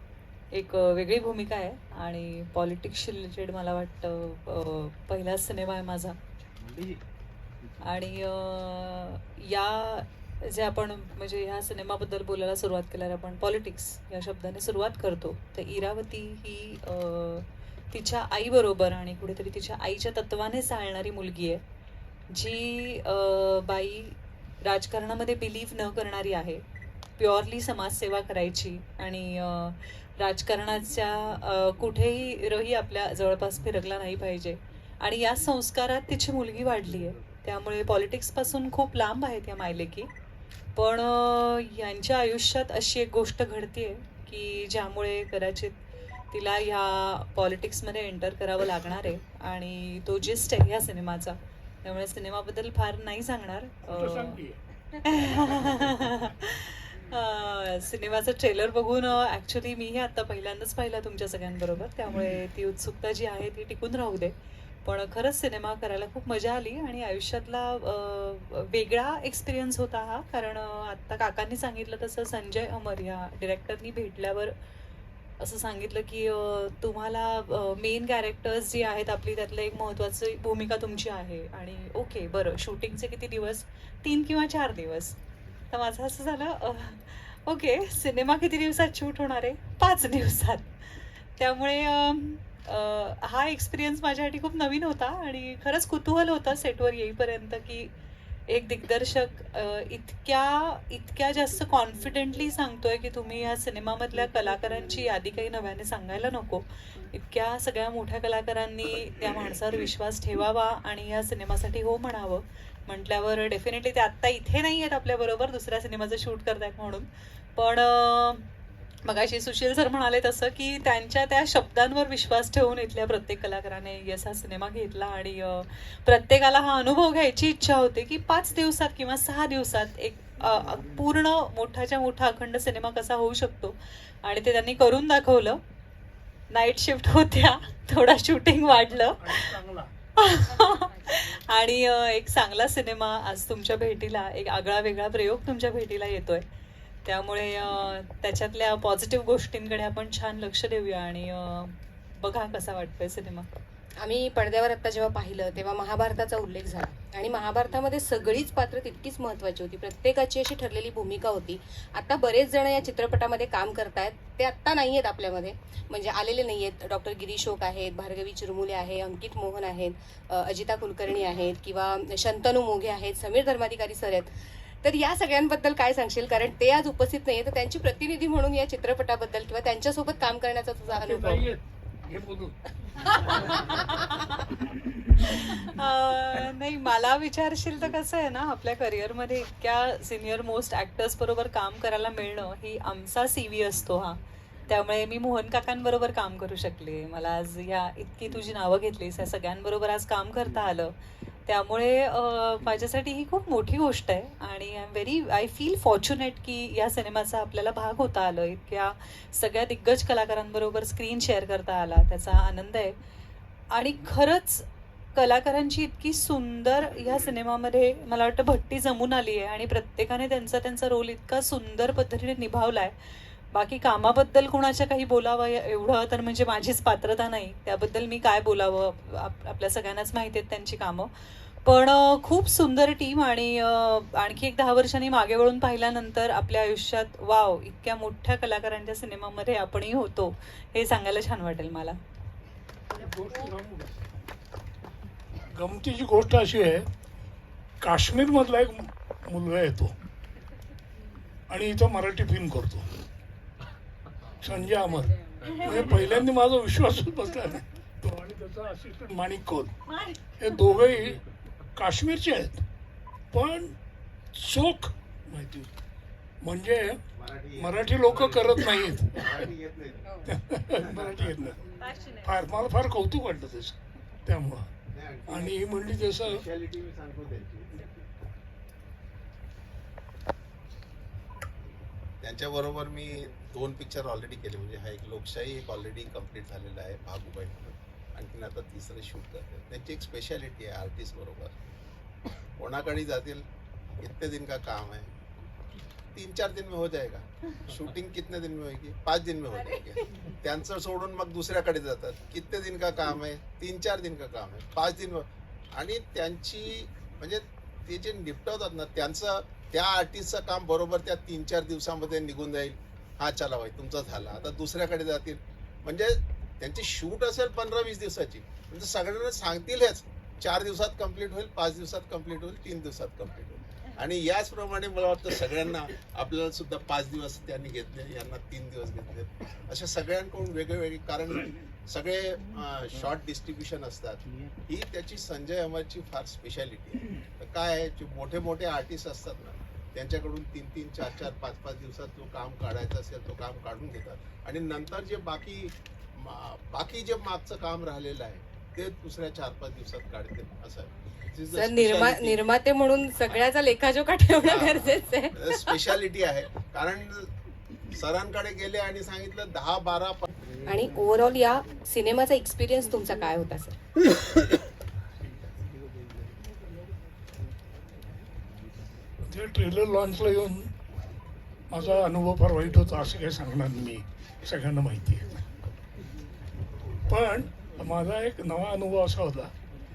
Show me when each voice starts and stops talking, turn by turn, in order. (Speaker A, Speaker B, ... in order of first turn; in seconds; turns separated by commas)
Speaker A: 0.5-6.2, Speaker A: 7.8-21.6, Speaker A: 22.3-26.6, Speaker A: 27.2-40.1, Speaker A: 40.7-45.8, Speaker A: 46.3-54.4, Speaker B: 53.9-54.6, Speaker A: 55.0-74.5, Speaker B: 55.3-55.8, Speaker A: 75.4-85.2, Speaker A: 85.7-97.9, Speaker A: 98.5-118.5, Speaker A: 119.0-135.6, Speaker A: 136.5-139.5, Speaker B: 139.2-139.9, Speaker A: 140.2-146.4, Speaker A: 147.0-153.5, Speaker C: 154.0-181.5, Speaker B: 180.9-183.7, Speaker A: 183.1-184.2, Speaker A: 185.2-212.9, Speaker A: 213.7-242.0, Speaker B: 242.9-243.9, Speaker B: 245.5-246.9, Speaker B: 247.8-249.9, Speaker B: 251.5-252.9, Speaker B: 254.4-259.7, Speaker B: 260.4-261.2, Speaker B: 261.8-262.6, Speaker B: 263.3-263.8, Speaker B: 264.3-265.7, Speaker B: 266.4-267.0, Speaker D: 267.1-270.2, Speaker B: 267.6-269.4, Speaker B: 270.2-271.6, Speaker D: 270.8-271.1, Speaker B: 272.2-274.7, Speaker D: 274.9-277.8, Speaker B: 275.3-276.4, Speaker D: 282.2-291.5, Speaker D: 292.6-293.4, Speaker D: 294.0-295.1, Speaker D: 296.1-352.4, Speaker C: 351.5-355.8, Speaker D: 354.4-357.3, Speaker D: 357.9-360.2, Speaker C: 360.6-363.8, Speaker B: 369.2-370.7, Speaker B: 371.7-375.2, Speaker B: 377.1-379.5